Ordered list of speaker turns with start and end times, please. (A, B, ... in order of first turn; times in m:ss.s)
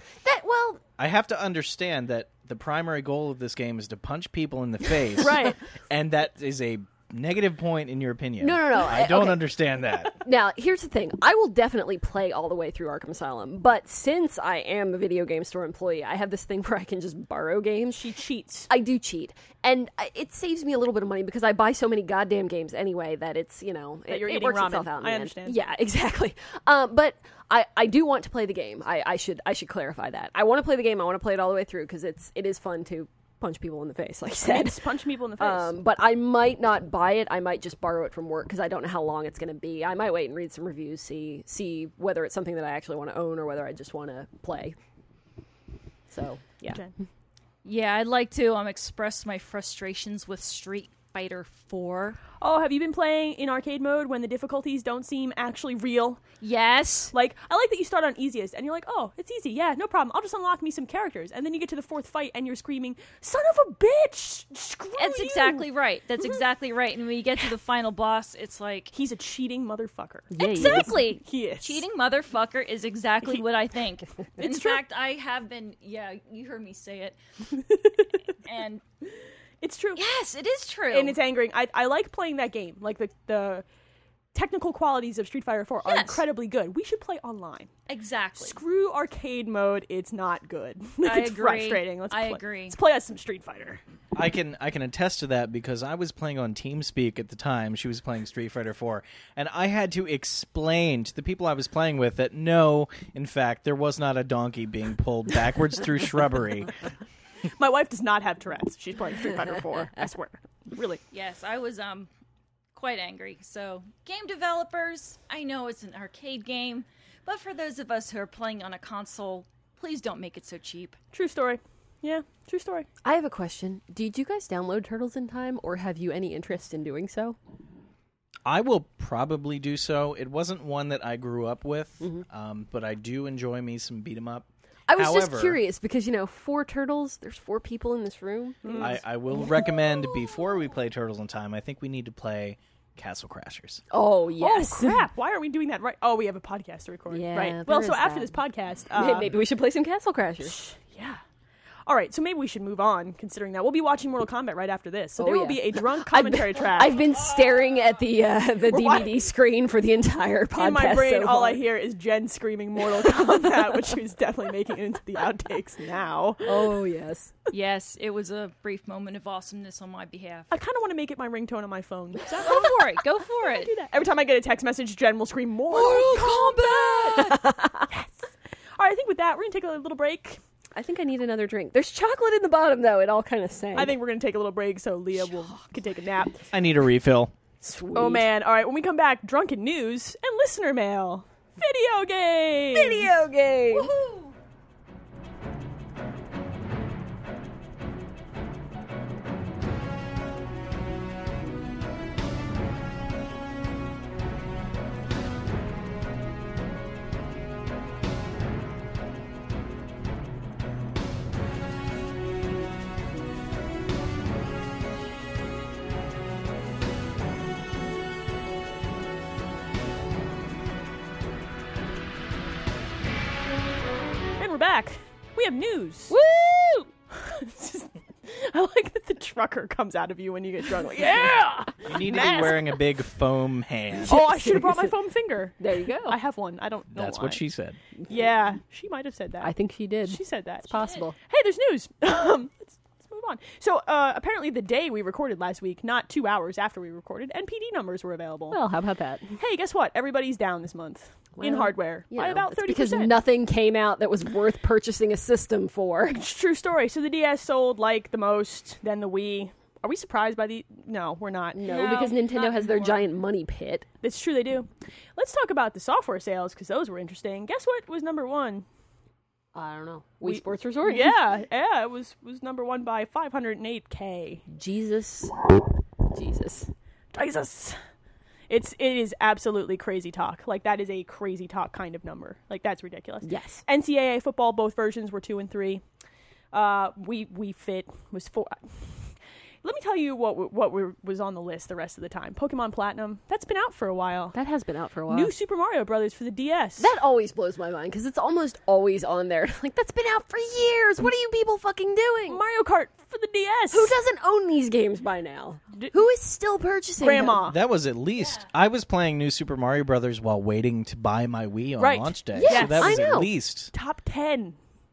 0:00.2-0:00.8 A
0:01.0-0:10.2 B
0:05.2-0:05.6 C
0:08.4-0:09.4 A
0:10.1-0:18.0 A
0:17.9-0:18.7 C
0:18.7-0:34.8 A
0:24.1-0:25.6 C
0:34.3-0:35.8 C
0:35.4-0:44.8 A
0:46.1-0:46.8 A
0:46.6-0:46.9 C
0:47.6-0:52.2 D
0:52.4-0:56.2 C
0:56.4-0:57.1 D
0:57.1-1:05.6 C
1:05.0-1:08.9 D
1:08.9-1:11.8 C
1:10.3-1:11.0 A
1:10.4-1:17.2 D
1:14.4-1:14.8 C
1:18.4-1:18.8 D
1:19.6-1:20.0 C
1:20.0-1:21.2 D
1:20.9-1:23.6 C
1:24.3-1:27.7 C
1:25.8-1:26.2 D
1:27.9-1:28.6 D
1:28.4-1:33.8 C
1:31.0-1:32.8 D
1:34.1-1:46.8 B
1:47.6-1:51.0 C
1:51.1-1:52.1 D
1:52.7-2:01.0 D
2:01.1-2:02.9 C
2:03.0-2:07.4 A
2:08.5-2:15.6 B
2:14.9-2:19.0 A
2:18.6-2:19.0 C
2:18.8-2:23.8 B
2:23.9-2:25.1 A
2:24.4-2:29.3 C
2:27.1-2:28.4 A
2:28.9-2:30.6 A
2:30.4-2:31.2 C
2:31.9-2:37.0 C
2:35.2-2:41.6 A
2:38.7-2:39.1 C
2:40.6-2:46.8 C
2:43.0-2:43.8 A
2:46.4-2:47.3 A
2:47.5-2:50.5 D
2:50.5-2:52.7 C
2:52.4-2:53.7 D
2:53.4-3:00.4 C
2:55.7-2:57.9 A
2:56.0-2:56.4 D
3:00.7-3:04.0 A
3:03.8-3:06.4 C
3:06.5-3:07.3 B
3:07.6-3:08.2 A
3:07.9-3:13.1 C
3:12.7-3:13.9 A
3:13.7-3:14.3 D
3:44.4-3:46.2 C
3:46.1-3:46.9 A
3:47.1-3:52.6 C
3:51.9-3:54.2 B
3:54.0-3:57.4 C
3:54.0-3:54.9 A
3:55.6-3:56.2 A
3:57.0-3:57.8 B
3:58.0-3:59.5 C
3:59.4-4:01.2 A
4:00.0-4:08.6 C
4:08.5-4:09.4 A
4:09.4-4:13.2 C
4:11.4-4:16.2 A
4:16.1-4:21.6 C
4:21.5-4:23.9 A
4:21.7-4:23.0 D
4:24.0-4:28.7 C
4:29.5-4:31.1 A
4:30.2-4:34.4 C
4:34.5-4:35.3 A
4:36.1-4:36.7 A
4:37.1-4:37.8 C
4:38.5-4:45.8 C
4:43.2-4:43.6 A
4:46.5-4:54.4 C
4:54.3-4:55.3 A
4:55.1-4:56.9 C
4:56.8-5:02.4 A
5:02.3-5:04.0 C
5:03.7-5:07.5 A
5:07.0-5:07.6 C
5:07.4-5:13.7 B
5:08.2-5:08.4 D
5:11.8-5:13.0 C
5:12.3-5:13.3 A
5:13.7-5:14.6 C